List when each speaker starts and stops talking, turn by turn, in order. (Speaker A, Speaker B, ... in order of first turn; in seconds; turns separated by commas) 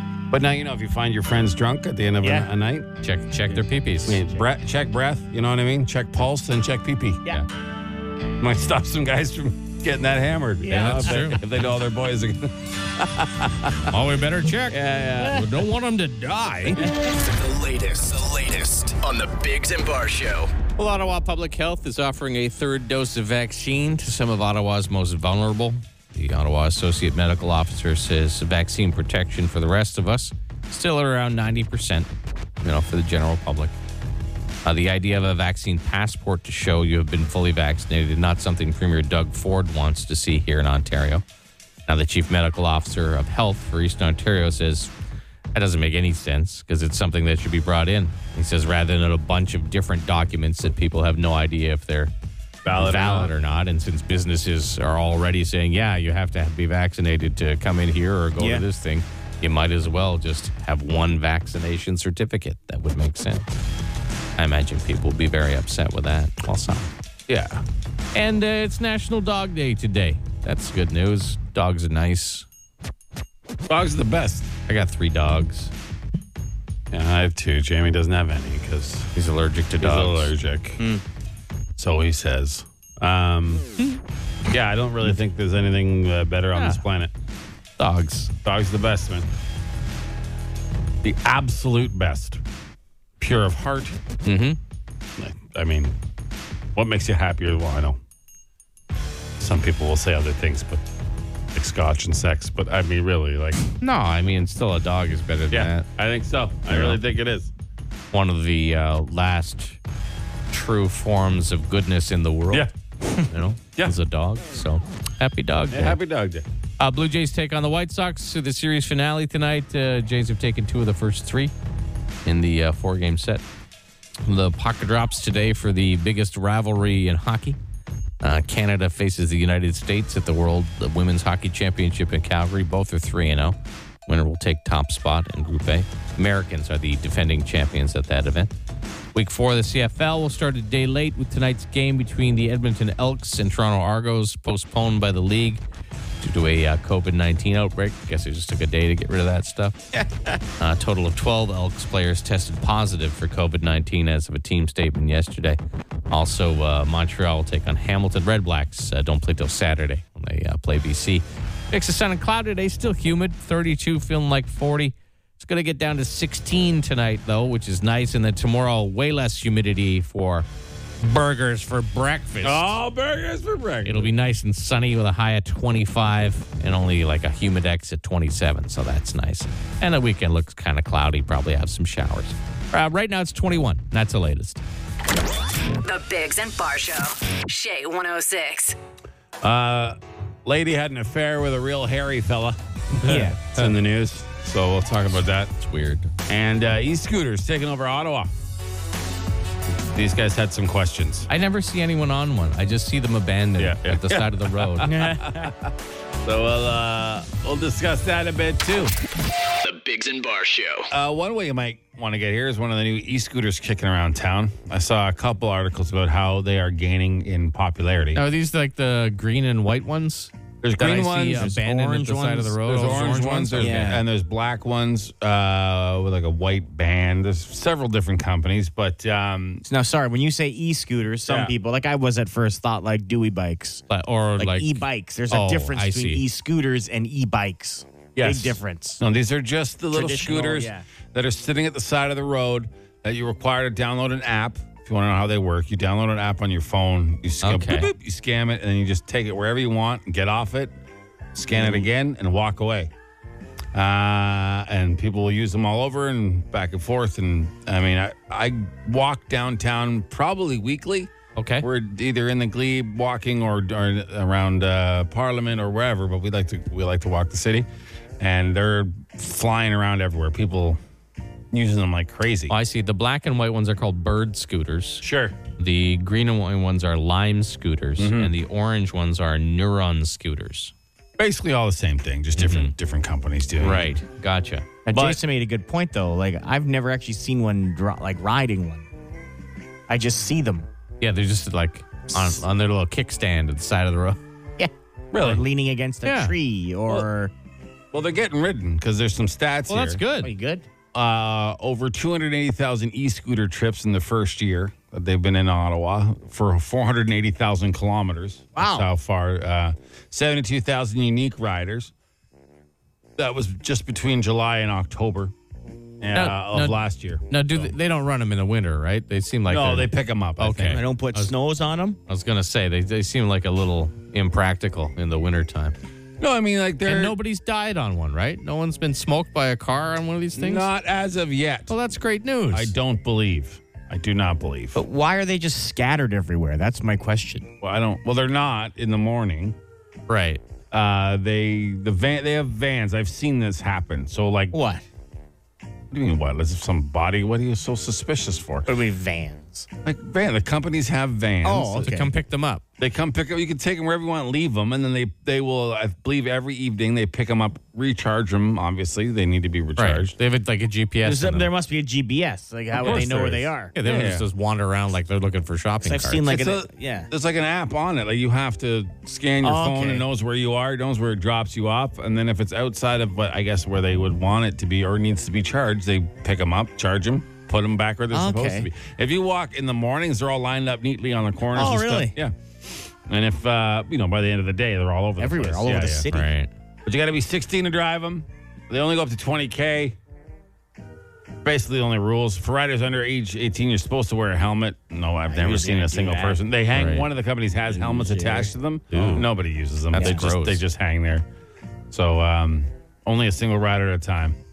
Speaker A: 0.3-2.9, Speaker B: 2.2-2.5, Speaker C: 3.0-4.2, Speaker A: 4.1-7.2, Speaker A: 8.4-13.9, Speaker B: 10.6-11.1, Speaker C: 10.7-11.6, Speaker C: 13.9-16.8, Speaker A: 14.7-15.6, Speaker A: 16.4-16.8, Speaker D: 16.9-20.5, Speaker C: 20.8-32.1, Speaker C: 32.6-33.7, Speaker C: 34.6-41.2, Speaker C: 41.9-44.9, Speaker C: 45.5-52.1, Speaker A: 52.6-53.3, Speaker C: 52.7-63.5, Speaker B: 58.4-58.6, Speaker C: 64.4-66.9, Speaker A: 67.3-67.6, Speaker C: 68.1-72.5, Speaker A: 73.7-74.5, Speaker C: 74.7-75.7, Speaker A: 76.9-79.1, Speaker C: 79.2-80.3, Speaker A: 79.8-80.8, Speaker A: 81.8-83.7, Speaker A: 84.5-87.1, Speaker C: 86.5-86.8, Speaker C: 87.8-88.3, Speaker A: 88.4-89.3, Speaker A: 91.0-92.4, Speaker A: 93.2-94.0, Speaker C: 94.2-94.6, Speaker A: 95.2-96.0, Speaker A: 96.7-98.0, Speaker A: 99.4-100.8, Speaker A: 101.5-103.6, Speaker C: 103.8-105.9, Speaker A: 105.5-107.5, Speaker C: 106.7-107.0, Speaker C: 108.1-109.8, Speaker C: 110.5-112.7, Speaker C: 113.3-116.0, Speaker A: 115.7-116.5, Speaker C: 116.8-121.5, Speaker C: 122.2-123.4, Speaker C: 124.2-127.6, Speaker C: 128.2-133.6, Speaker C: 134.1-138.5, Speaker C: 139.1-145.6, Speaker C: 146.2-149.8, Speaker B: 149.9-150.4, Speaker C: 150.6-155.6, Speaker C: 156.1-170.4, Speaker C: 171.0-172.8, Speaker A: 172.4-174.1, Speaker C: 173.8-184.6, Speaker E: 185.8-188.7, Speaker A: 189.4-195.5, Speaker B: 193.0-193.4, Speaker C: 193.0-193.7, Speaker C: 195.6-196.1, Speaker A: 196.3-198.3, Speaker A: 199.7-201.3, Speaker C: 201.3-205.0, Speaker A: 203.6-208.9, Speaker B: 204.8-205.5, Speaker D: 209.6-210.9, Speaker A: 210.9-218.2, Speaker C: 218.1-223.8, Speaker A: 220.6-229.6, Speaker B: 221.4-221.7, Speaker B: 223.6-224.0, Speaker B: 229.6-233.8, Speaker A: 231.3-231.5, Speaker C: 233.9-236.2, Speaker B: 234.4-239.0, Speaker A: 238.2-250.7, Speaker B: 239.9-240.8, Speaker C: 247.4-247.9, Speaker A: 251.3-252.9, Speaker B: 251.6-251.8, Speaker A: 253.7-267.7, Speaker C: 261.4-261.7, Speaker A: 268.2-270.8, Speaker A: 271.5-272.6, Speaker C: 272.5-275.0, Speaker A: 275.0-275.4, Speaker C: 275.6-280.7, Speaker A: 278.0-278.3, Speaker A: 281.2-284.0, Speaker C: 282.4-282.7, Speaker C: 283.6-284.8, Speaker B: 284.9-288.9, Speaker A: 284.9-285.2, Speaker B: 289.9-290.7, Speaker C: 291.0-294.2, Speaker B: 294.6-297.3, Speaker A: 295.1-295.4, Speaker C: 296.0-296.4, Speaker A: 297.9-300.0, Speaker C: 299.7-300.3, Speaker B: 300.2-300.6, Speaker A: 300.9-311.9, Speaker B: 308.6-308.9, Speaker A: 313.2-315.3, Speaker A: 316.0-317.7, Speaker C: 316.1-321.3, Speaker A: 319.5-320.8, Speaker B: 320.7-322.0, Speaker C: 322.1-325.7, Speaker A: 326.2-327.1, Speaker C: 326.9-330.7, Speaker A: 330.3-331.7, Speaker C: 331.7-332.7, Speaker A: 332.5-334.8, Speaker B: 334.7-337.5, Speaker A: 337.6-339.6, Speaker C: 340.1-340.4, Speaker A: 340.7-344.5, Speaker B: 344.5-344.8, Speaker A: 345.9-348.7, Speaker B: 348.7-349.7, Speaker A: 349.8-351.9, Speaker B: 351.4-352.1, Speaker C: 351.8-352.6, Speaker A: 352.8-360.1, Speaker C: 359.8-361.5, Speaker B: 361.0-363.7, Speaker A: 362.7-364.3, Speaker C: 362.8-363.1, Speaker C: 363.7-366.2, Speaker B: 365.8-367.1, Speaker A: 366.2-386.1, Speaker B: 369.4-370.0, Speaker B: 378.1-378.7, Speaker B: 381.5-382.1, Speaker B: 385.2-386.3, Speaker C: 386.1-386.5, Speaker A: 386.8-390.0, Speaker A: 391.4-401.2, Speaker B: 395.3-396.4, Speaker C: 396.7-397.1, Speaker B: 397.7-398.5, Speaker C: 398.9-399.3, Speaker C: 399.9-400.6, Speaker A: 401.9-404.4